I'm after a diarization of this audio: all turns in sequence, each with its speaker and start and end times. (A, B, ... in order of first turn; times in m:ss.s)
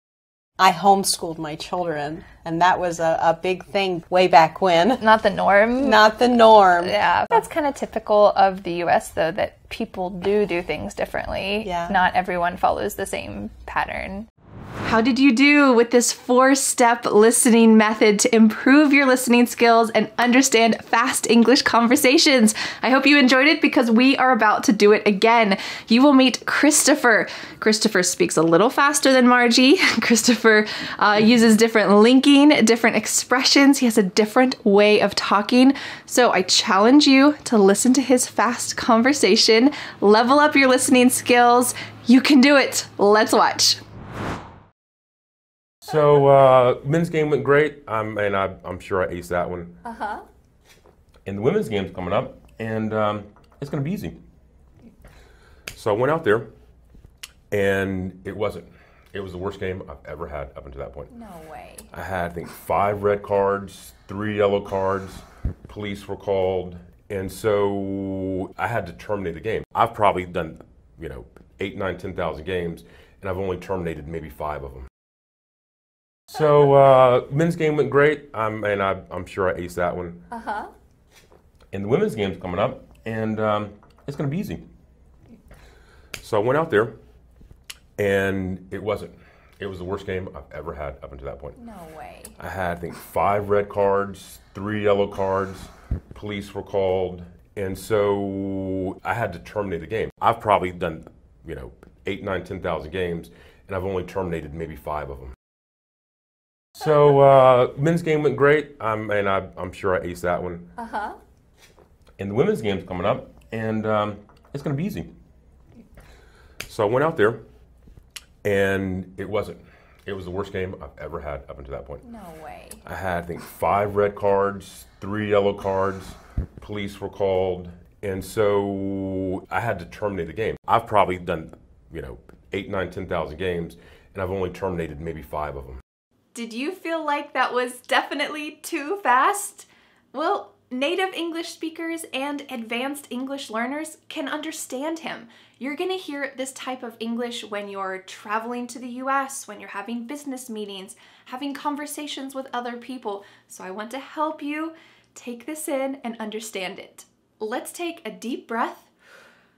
0:00.6-0:05.0 A
0:05.0-0:06.0 B
0:05.8-0:07.4 A
0:06.8-0:14.3 B
0:11.6-0:12.0 A
0:14.8-0:43.8 C
0:45.8-0:49.8 D
0:51.2-0:54.2 D
0:55.7-0:56.5 D
0:57.5-1:01.1 D
1:01.1-1:01.9 B
1:01.9-1:14.9 D
1:16.3-1:20.2 D
1:21.7-1:24.6 D
1:26.2-1:27.0 D
1:28.0-1:31.6 D
1:31.6-1:32.3 B
1:32.4-1:45.3 D
1:46.8-1:50.7 D
1:52.2-1:55.1 D
1:56.6-1:57.4 D
1:58.4-2:02.0 D
2:02.0-2:02.8 B
2:02.8-2:15.8 D
2:16.3-2:38.9 C